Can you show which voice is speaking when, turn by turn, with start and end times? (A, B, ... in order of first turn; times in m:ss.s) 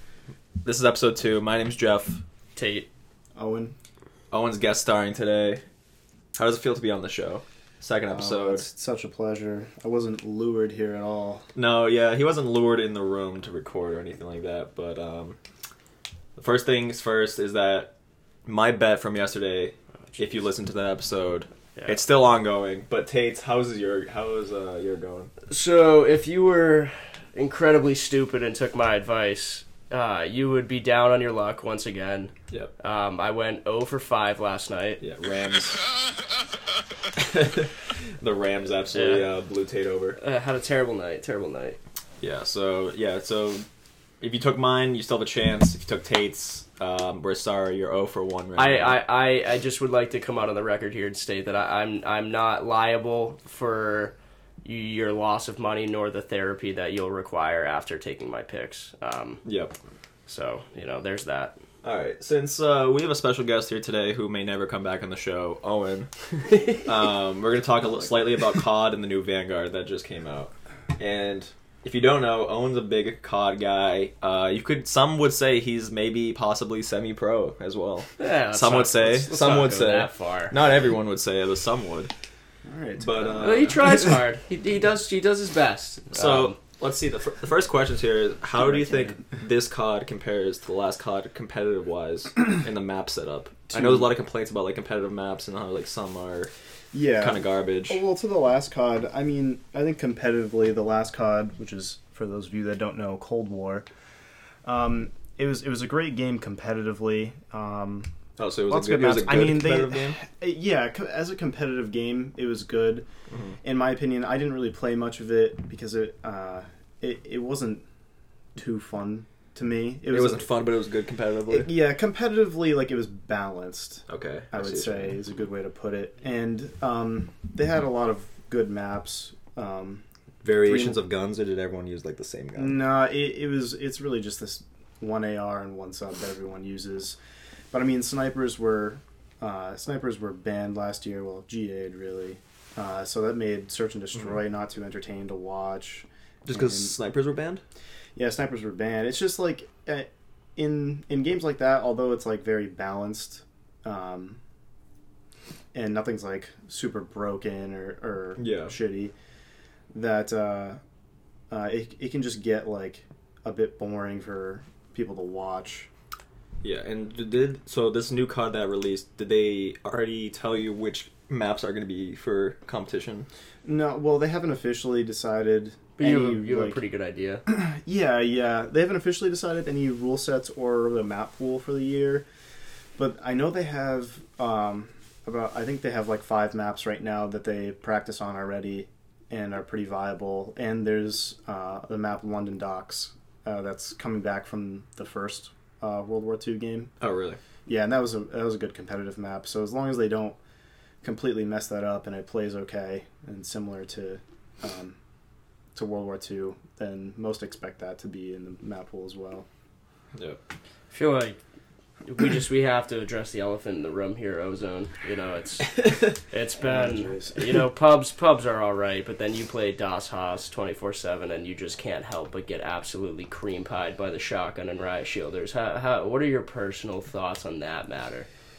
0:00.6-0:02.2 A
0:02.6-0:02.9 B
0:03.3-0:03.7 C
0:04.3-0:05.6 A
0:06.3-0:08.6 A
0:08.1-0:11.5 C
0:11.5-0:15.4 A
0:16.4-0:17.9 A
0:18.4-0:25.3 A
0:21.8-0:22.0 B
0:25.5-0:35.0 B
0:35.0-0:35.8 A
0:37.1-0:40.2 A
0:38.9-0:39.3 B
0:40.2-0:41.8 B
0:42.2-0:43.6 A
0:44.2-0:49.0 A
0:48.6-0:59.4 B
0:59.4-0:59.8 A
1:00.3-1:01.6 B
1:01.8-1:06.1 A
1:06.8-1:22.1 A
1:18.2-1:20.6 B
1:22.6-1:24.0 C
1:23.0-1:23.9 A
1:23.4-1:26.6 B
1:26.1-1:36.5 A
1:33.7-1:34.1 C
1:36.9-1:43.9 C
1:37.2-1:38.0 A
1:44.6-1:48.1 C
1:48.4-1:50.2 A
1:48.7-1:53.0 C
1:53.3-1:53.6 A
1:53.6-1:57.8 C
1:58.6-2:00.6 C
2:00.1-2:01.7 A
2:01.5-2:11.0 C
2:04.1-2:05.2 A
2:10.4-2:12.8 A
2:12.5-2:17.2 C
2:17.7-2:26.9 C
2:26.4-2:27.6 A
2:28.2-2:34.4 C
2:35.7-2:39.1 C
2:38.4-2:38.7 A
2:39.9-2:40.8 C
2:41.5-2:45.9 C
2:46.6-2:53.3 A
2:53.6-2:56.8 C
2:56.0-2:57.4 B
2:57.5-3:02.2 C
3:03.0-3:16.9 C
3:17.0-3:17.4 A
3:17.6-3:20.4 C
3:21.0-3:25.0 C
3:25.7-3:29.4 C
3:30.9-3:31.4 B
3:32.0-3:48.3 B
3:36.6-3:37.6 C